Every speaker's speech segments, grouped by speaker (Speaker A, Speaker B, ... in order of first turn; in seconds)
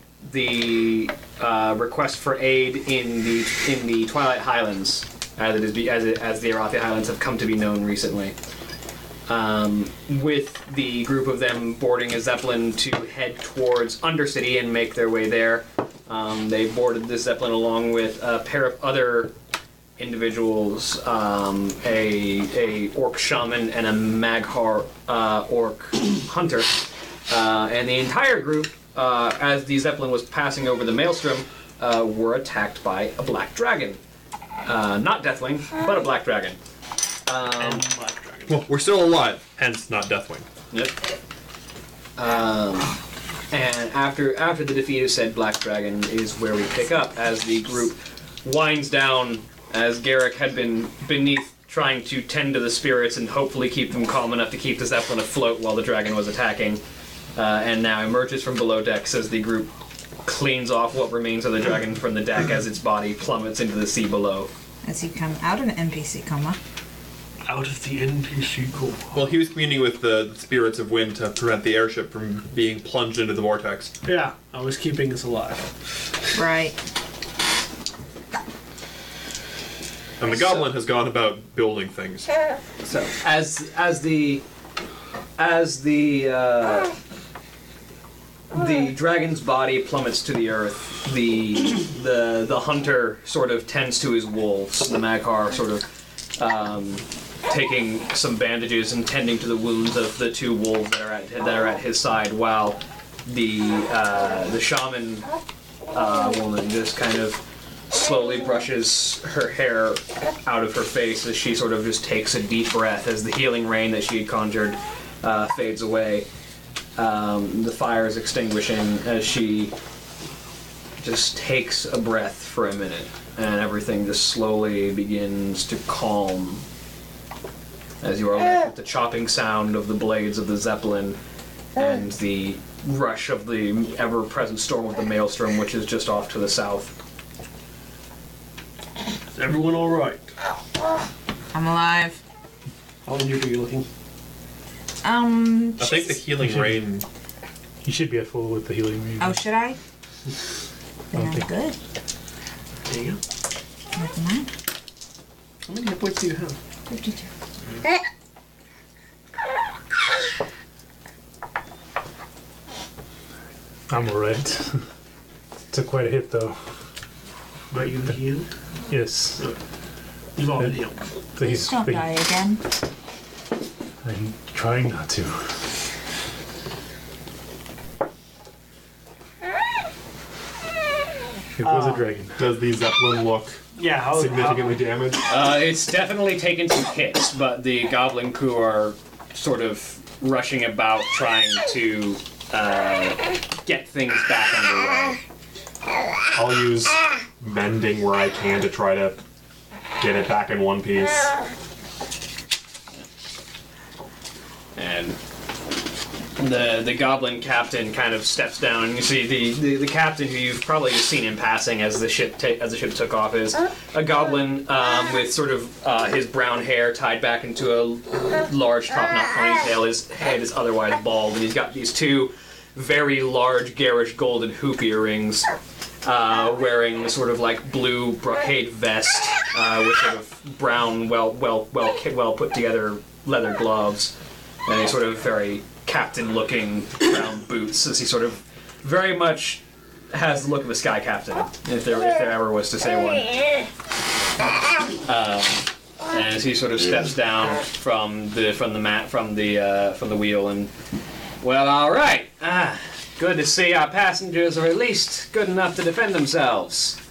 Speaker A: 0.2-8.3, 9.3-19.3, 20.0-34.0, 34.6-36.6, 37.2-37.8, 40.7-41.0, 42.2-42.9, 43.5-56.8, 57.3-59.7, 60.2-64.5, 82.8-84.4, 85.4-86.9, 88.5-105.3, 105.9-116.2, 117.0-119.7, 121.0-126.6, 128.0-131.2, 131.8-136.9, 185.3-195.2, 204.8-205.2, 206.4-225.5, 226.0-234.1, 234.7-243.3, 245.0-250.7, 251.4-257.0
Speaker B: 37.5-38.6, 67.5-69.2, 74.0-75.9, 139.3-140.3, 143.1-143.8, 152.8-153.2, 155.7-156.6, 167.7-168.5, 170.4-171.0, 181.6-182.1, 183.8-184.8
Speaker C: 38.5-40.5, 69.1-73.9, 80.2-82.3, 145.8-147.0
Speaker D: 64.8-66.6, 76.3-76.8, 141.5-142.2, 145.0-146.2, 149.2-149.8, 151.1-151.8, 153.9-154.5, 156.9-157.3, 171.7-172.6
Speaker E: 147.8-149.4, 151.1-151.4, 163.9-164.8, 165.7-166.6, 168.9-169.5, 171.3-172.1, 174.0-175.6, 181.6-182.4
Speaker F: 182.4-185.2, 196.3-199.2, 200.0-201.3